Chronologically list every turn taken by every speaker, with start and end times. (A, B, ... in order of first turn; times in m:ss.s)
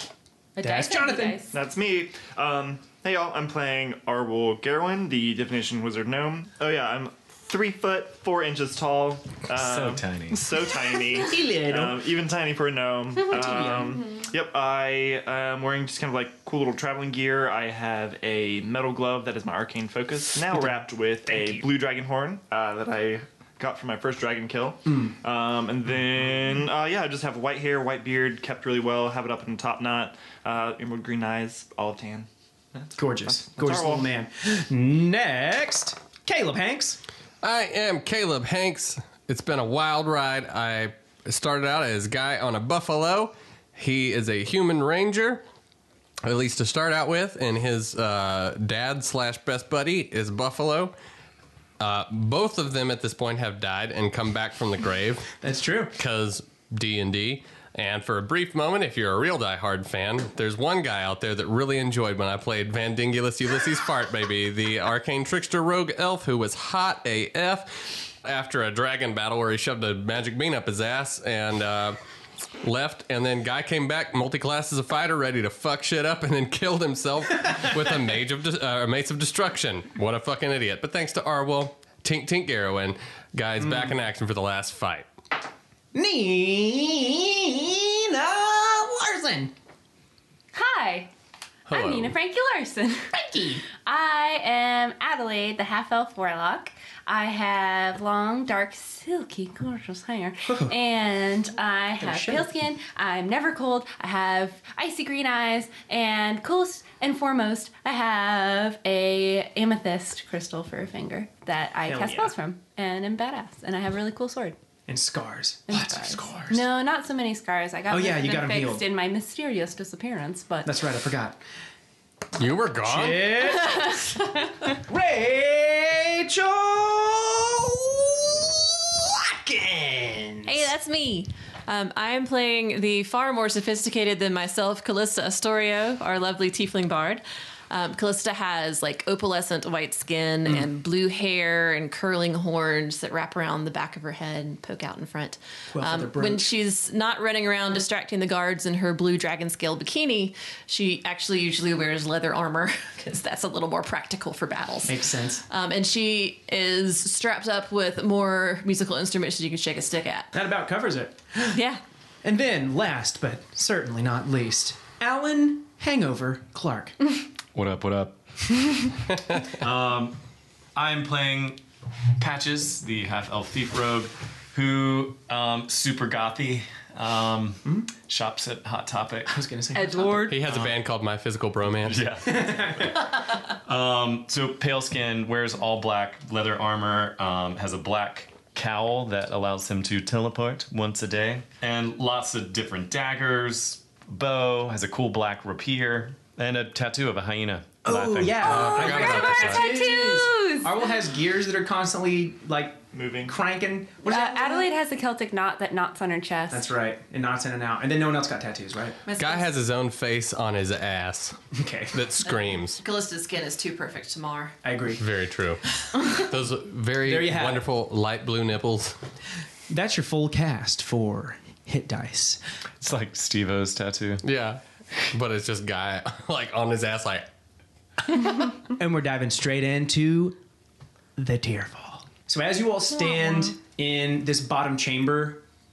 0:00.6-0:01.5 A
0:00.6-0:01.4 B
0:01.5-0:34.1 C
0:09.5-0:10.6 D
0:11.2-0:12.0 B
0:13.3-0:14.0 B
0:21.2-0:21.6 B
0:24.9-0:25.1 B
0:33.0-0:37.0 B
0:37.4-0:45.4 E
0:46.2-0:50.9 E
0:51.8-0:55.3 E
0:55.4-0:56.0 B
0:56.0-1:12.0 E
1:12.6-1:25.1 E
1:23.6-1:23.9 B
1:25.9-1:29.5 B
1:30.5-1:31.1 A
1:31.7-1:32.1 E
1:31.7-1:33.1 A
1:33.1-1:33.6 B
1:33.8-1:54.6 A
1:40.5-1:40.7 B
1:42.0-1:42.5 B
1:51.9-1:52.3 B
1:54.9-1:56.6 B
1:55.7-2:00.7 A
1:57.9-1:58.8 B
2:00.6-2:01.4 B
2:02.4-2:03.4 E
2:02.8-2:04.0 B
2:04.6-2:10.7 B
2:10.4-2:40.3 F
2:25.7-2:26.5 B
2:34.8-2:35.4 B
2:40.3-2:41.6 B
2:41.5-2:41.8 F
2:42.2-2:47.0 B
2:47.5-2:48.2 D
2:49.5-2:50.2 D
2:50.8-2:51.6 D
2:52.2-2:59.3 D
2:57.6-2:57.9 B
2:59.3-3:00.2 B
2:59.8-3:00.3 A
2:59.8-3:00.3 F
3:00.3-3:02.1 E
3:00.4-3:00.8 D
3:01.8-3:03.0 D
3:02.2-3:03.1 B
3:03.6-3:18.8 D
3:17.8-3:24.7 B
3:18.4-3:19.7 E
3:18.8-3:20.8 A
3:22.9-3:23.3 C
3:24.0-3:26.7 A
3:26.5-3:29.0 B
3:29.1-3:29.5 F
3:29.2-3:31.4 E
3:31.5-3:32.0 B
3:31.9-3:32.8 E
3:32.2-3:34.6 F
3:34.6-3:35.0 B
3:35.0-3:39.0 E
3:37.0-3:37.6 B
3:39.7-3:42.4 B
3:42.8-3:44.2 D
3:44.2-3:47.3 E
3:48.1-3:50.4 B
3:51.2-3:55.4 B